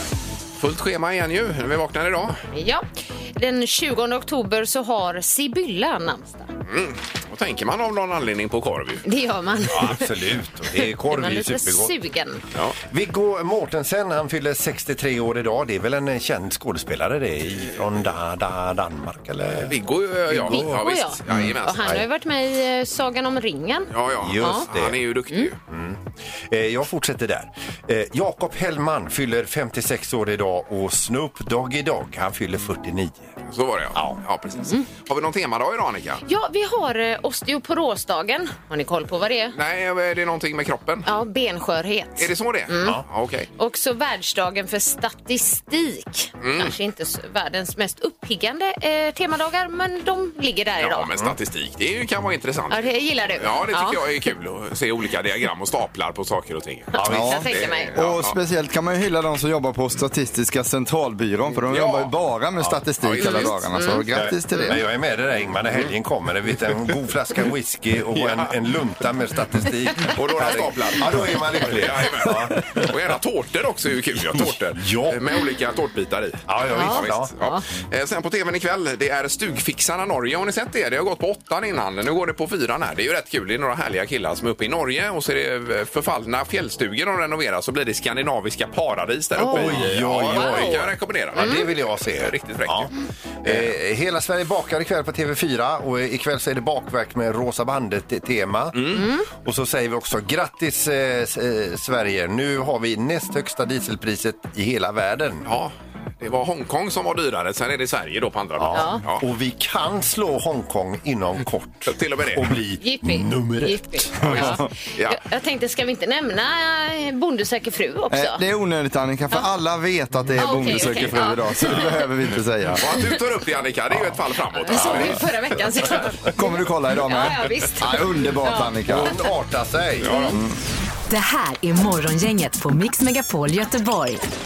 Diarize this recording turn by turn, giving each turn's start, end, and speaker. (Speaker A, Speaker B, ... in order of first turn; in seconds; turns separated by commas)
Speaker A: 0.6-2.4, Speaker B: 2.5-6.5, Speaker A: 6.7-9.0, Speaker B: 9.0-10.1, Speaker C: 9.7-11.9, Speaker B: 10.8-12.4, Speaker C: 12.8-22.0, Speaker A: 19.6-22.0, Speaker B: 20.4-24.7, Speaker A: 23.9-25.6, Speaker C: 24.2-25.0, Speaker C: 25.7-33.3, Speaker A: 33.5-36.2, Speaker B: 36.2-39.5, Speaker A: 39.5-41.1, Speaker B: 41.0-43.0, Speaker A: 42.2-43.5, Speaker B: 43.6-51.1, Speaker A: 46.4-46.7, Speaker A: 50.8-52.8, Speaker B: 52.7-54.3, Speaker A: 53.4-58.4, Speaker C: 56.9-57.5, Speaker B: 56.9-58.0, Speaker D: 57.1-64.8, Speaker A: 61.7-62.1, Speaker A: 63.0-63.6, Speaker B: 63.2-64.8, Speaker C: 64.1-72.8, Speaker A: 68.1-68.5, Speaker A: 70.1-93.7, Speaker C: 74.2-75.2, Speaker C: 76.5-77.3, Speaker B: 76.7-77.6, Speaker B: 89.4-90.8, Speaker C: 89.5-92.9, Speaker B: 91.4-91.6, Speaker C: 93.4-105.5, Speaker A: 98.7-99.1, Speaker B: 98.9-99.2, Speaker A: 105.4-109.2, Speaker C: 108.6-114.6, Speaker B: 108.7-109.0, Speaker A: 111.9-112.5, Speaker B: 112.8-118.4, Speaker A: 114.2-115.2, Speaker D: 118.1-122.9, Speaker B: 120.4-121.9, Speaker A: 122.8-125.2, Speaker B: 124.5-129.1, Speaker C: 124.7-125.2, Speaker D: 126.3-129.2, Speaker C: 128.8-130.3, Speaker A: 130.0-130.4, Speaker E: 131.1-134.2